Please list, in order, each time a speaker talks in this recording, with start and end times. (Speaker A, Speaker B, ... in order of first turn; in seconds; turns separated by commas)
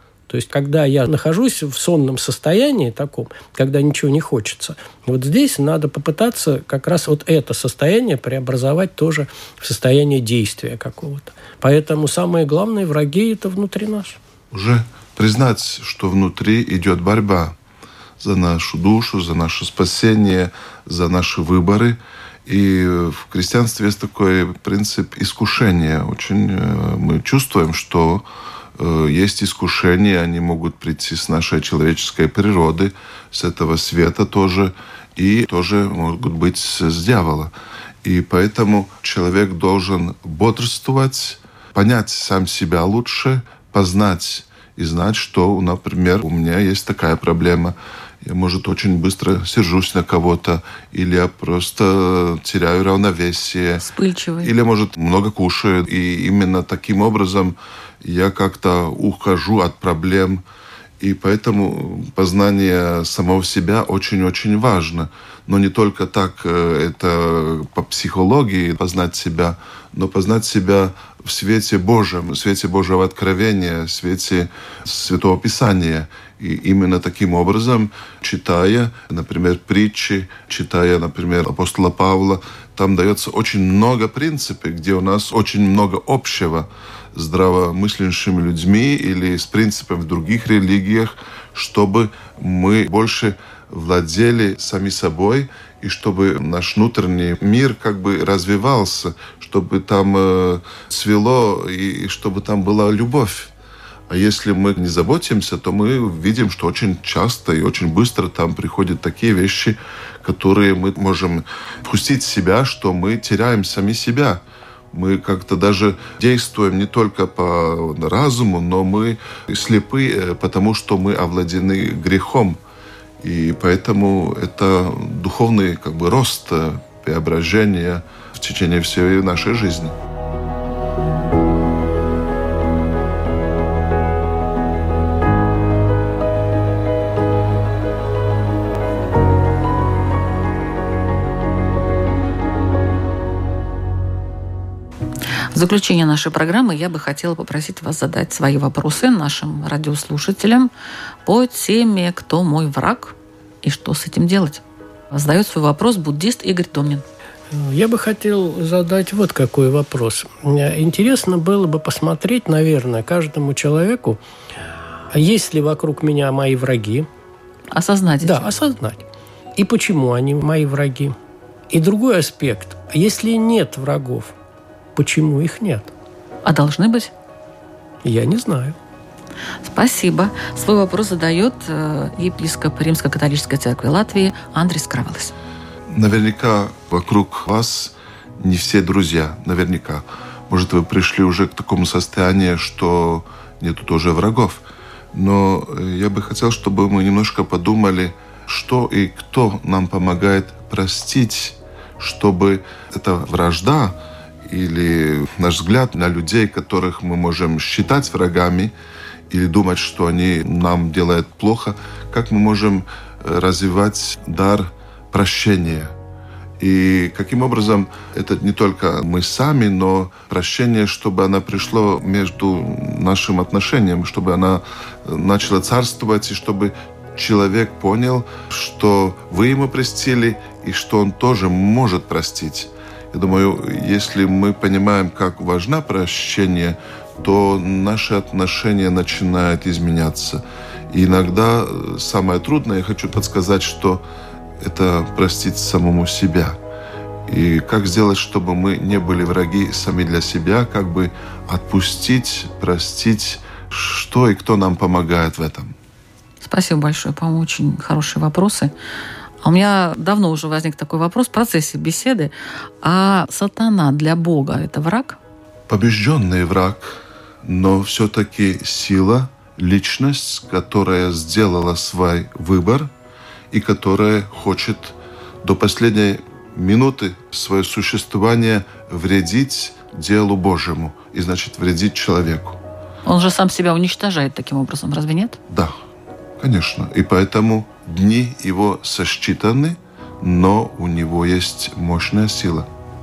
Speaker A: 0.3-14.2, Speaker B: 14.5-17.6, Speaker B: 18.2-53.9, Speaker C: 53.8-54.5, Speaker B: 54.4-60.4, Speaker B: 61.0-103.5, Speaker B: 104.1-122.6, Speaker B: 123.2-129.9, Speaker C: 145.5-150.7, Speaker C: 151.2-157.0, Speaker A: 157.5-164.2, Speaker A: 165.1-167.1, Speaker C: 167.7-168.5, Speaker A: 168.2-169.0, Speaker A: 169.6-171.1, Speaker A: 171.7-174.3, Speaker A: 174.9-175.9, Speaker C: 176.4-177.1, Speaker A: 178.0-178.8, Speaker C: 179.6-185.3, Speaker B: 185.9-208.7, Speaker B: 209.3-215.9, Speaker B: 216.6-244.0, Speaker B: 244.6-246.6, Speaker B: 247.3-255.7, Speaker C: 256.4-258.7, Speaker C: 259.4-265.2, Speaker B: 265.7-272.9, Speaker B: 273.5-282.6, Speaker C: 283.1-285.4, Speaker B: 285.5-285.8, Speaker B: 286.4-292.7